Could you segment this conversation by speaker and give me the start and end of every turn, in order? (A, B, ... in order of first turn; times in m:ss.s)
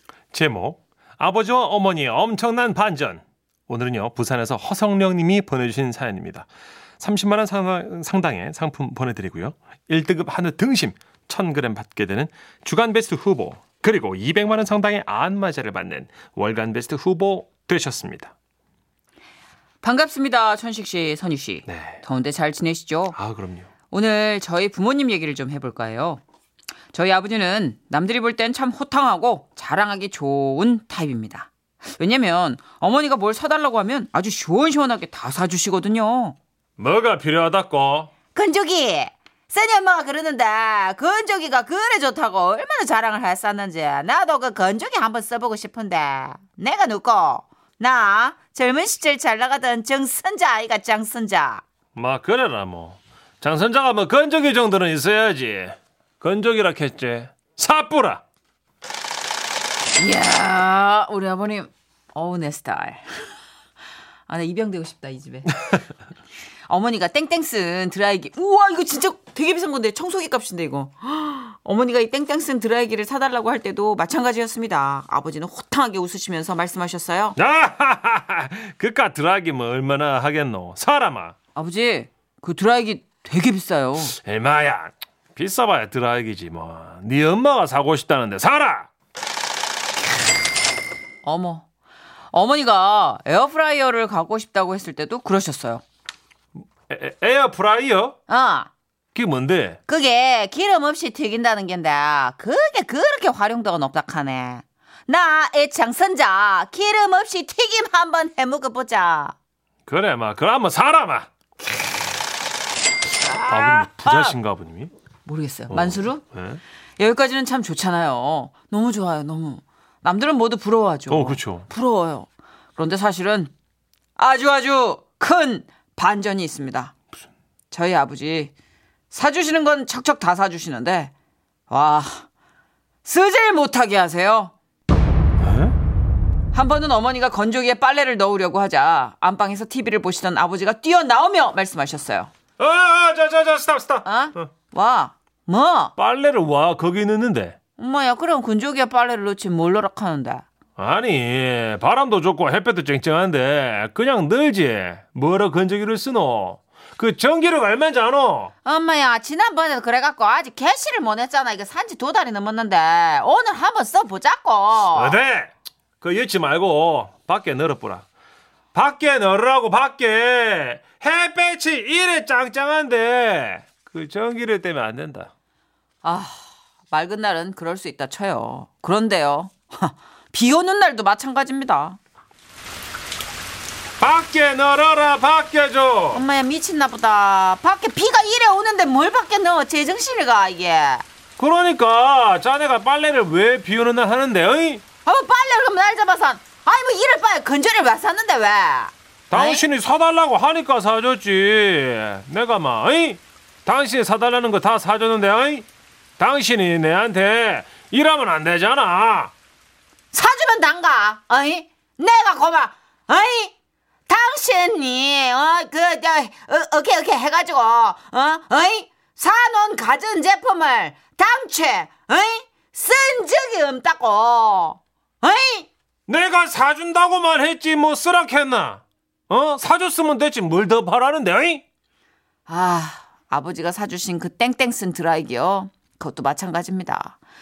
0:00.3-0:06.5 A
0:07.0-0:18.3 A
0:19.8-0:23.2 B
0:21.7-0:22.0 A
0:23.2-0:23.7 A
0:23.9-0:26.2 B
0:26.9-0:36.4 B
0:36.8-0:38.1 A
0:38.3-0:51.6 B
0:52.0-0:58.2 A
1:00.0-1:03.3 B
1:04.3-1:05.6 B
1:06.7-1:17.4 B
1:17.4-1:21.4 A
1:21.6-1:24.2 B
1:24.2-1:28.9 A
1:31.2-1:31.7 B
1:32.3-1:35.8 B
1:36.6-1:38.2 A
1:38.3-1:38.7 B
1:39.2-1:39.8 A
1:39.9-1:49.4 B
1:49.9-1:51.3 A
1:53.2-1:54.4 B
1:53.5-1:54.9 A
1:55.2-1:56.2 B
1:55.7-1:56.6 A
1:57.0-2:03.5 B
2:01.1-2:01.7 A
2:04.2-2:06.9 B
2:07.7-2:08.5 B
2:09.1-2:11.1 B
2:11.7-2:12.3 B
2:13.0-2:14.5 B
2:15.4-2:15.8 A
2:16.5-2:22.3 B
2:22.6-2:24.5 A
2:24.0-2:25.9 B
2:26.0-2:27.6 A
2:27.8-2:30.5 B
2:30.8-2:38.5 A
2:38.6-2:45.2 B
2:44.9-2:48.1 A
2:48.7-2:55.3 A
2:56.0-3:02.0 B
3:04.0-3:06.2 A
3:06.1-3:11.0 B
3:11.4-3:14.8 A
3:15.0-3:19.6 B
3:19.3-3:25.7 A
3:26.2-3:29.3 A
3:30.1-3:33.5 B
3:34.1-3:45.7 B
3:46.1-3:51.6 A
3:52.5-3:57.2 B